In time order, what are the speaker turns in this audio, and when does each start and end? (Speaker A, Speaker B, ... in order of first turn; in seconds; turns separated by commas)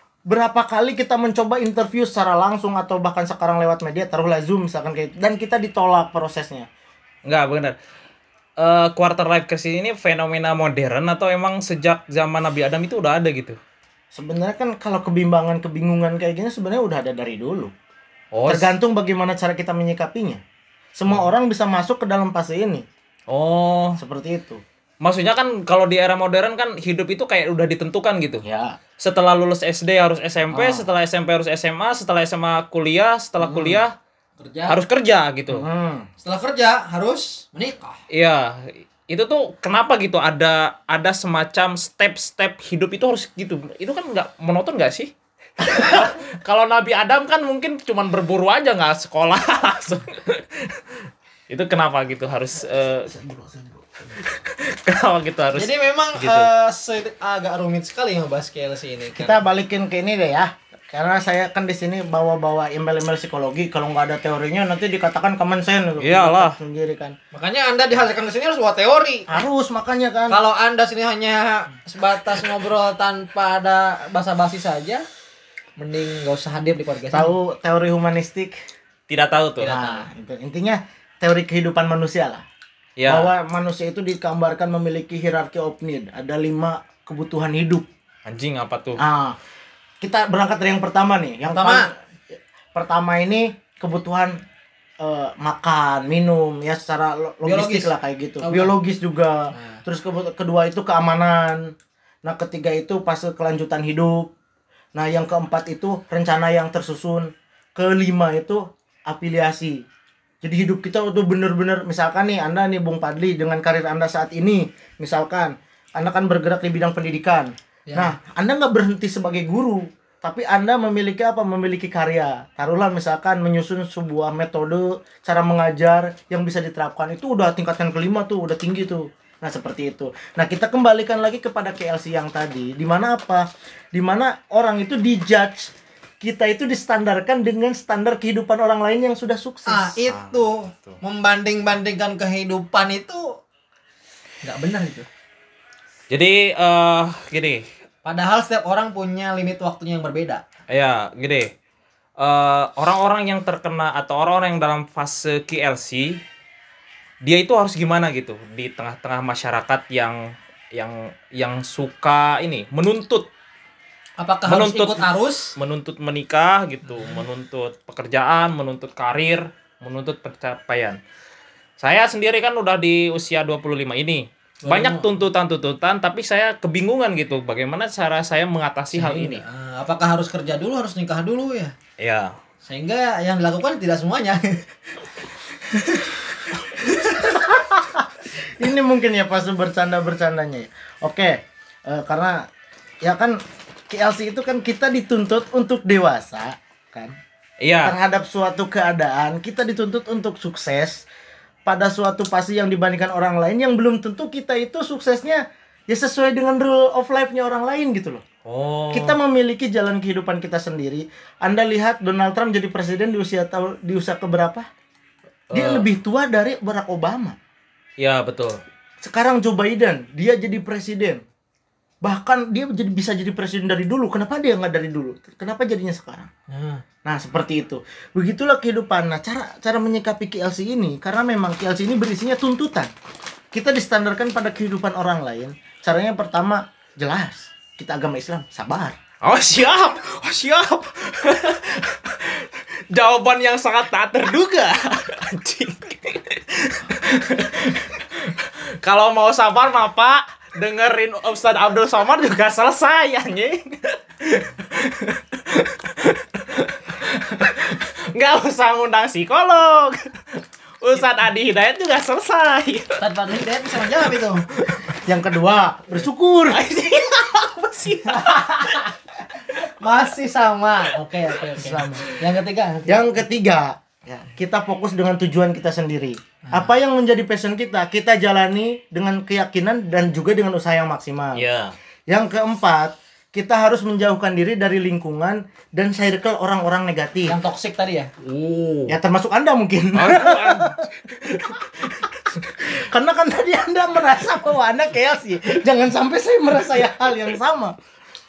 Speaker A: 0.3-6.7, Speaker B: 7.2-7.8, Speaker B: 8.6-13.6, Speaker A: 14.1-17.7, Speaker B: 18.3-18.7, Speaker A: 18.5-20.4, Speaker A: 20.9-22.9, Speaker B: 23.3-24.0, Speaker A: 24.0-24.6, Speaker B: 25.0-28.4, Speaker A: 28.4-28.8, Speaker B: 29.0-33.9, Speaker A: 30.5-30.9, Speaker A: 33.4-33.8, Speaker C: 34.4-34.8, Speaker B: 34.7-35.7, Speaker A: 35.5-36.1, Speaker C: 36.2-38.0, Speaker B: 38.1-45.1, Speaker B: 45.6-51.0, Speaker B: 51.5-53.2, Speaker A: 53.1-53.8, Speaker B: 54.2-56.5, Speaker C: 55.5-59.4, Speaker A: 59.1-67.2, Speaker B: 66.0-66.6, Speaker C: 67.3-69.3, Speaker A: 69.3-70.4, Speaker C: 70.3-75.0, Speaker C: 75.8-77.3, Speaker A: 77.1-78.5, Speaker B: 79.1-79.8, Speaker A: 79.6-82.4, Speaker C: 79.6-80.0, Speaker B: 83.0-83.3, Speaker A: 83.1-87.9, Speaker B: 88.3-89.0, Speaker A: 89.0-89.4, Speaker A: 90.0-91.9, Speaker C: 91.5-91.9, Speaker A: 92.7-94.3, Speaker A: 95.0-101.7, Speaker C: 97.4-98.7, Speaker C: 99.5-99.8, Speaker A: 102.2-104.3, Speaker A: 104.9-109.8, Speaker A: 110.4-140.2, Speaker C: 117.9-118.1, Speaker C: 139.7-143.3, Speaker C: 144.4-145.1, Speaker B: 146.1-147.6, Speaker C: 148.0-150.4, Speaker B: 150.7-151.5, Speaker B: 152.2-156.2, Speaker B: 157.2-160.2, Speaker B: 160.7-163.3, Speaker C: 164.2-165.5, Speaker B: 164.5-171.0, Speaker B: 171.8-179.4, Speaker C: 174.7-175.1, Speaker C: 178.9-181.7, Speaker B: 182.0-182.3, Speaker C: 182.6-184.7, Speaker A: 185.8-186.2, Speaker A: 187.2-192.4, Speaker A: 193.0-193.4, Speaker A: 193.9-197.1, Speaker B: 197.6-197.9, Speaker A: 197.8-201.0, Speaker A: 201.7-208.2, Speaker B: 208.4-209.2, Speaker A: 208.9-214.6, Speaker B: 215.5-215.8, Speaker A: 215.5-217.4, Speaker B: 218.0-218.6, Speaker A: 219.0-221.2, Speaker A: 222.0-226.3, Speaker C: 226.5-226.8, Speaker A: 227.0-232.9, Speaker A: 233.5-238.9, Speaker B: 239.2-260.1, Speaker B: 260.8-263.0, Speaker C: 263.0-264.4, Speaker B: 263.8-265.0, Speaker A: 264.9-266.6, Speaker B: 266.5-268.9, Speaker C: 268.1-268.9, Speaker C: 269.5-273.1, Speaker A: 271.5-272.1, Speaker A: 272.9-281.4, Speaker C: 276.5-276.7, Speaker B: 281.3-281.7, Speaker A: 282.1-287.4, Speaker C: 287.2-288.1, Speaker B: 288.2-288.9, Speaker A: 288.9-297.8, Speaker B: 289.9-292.1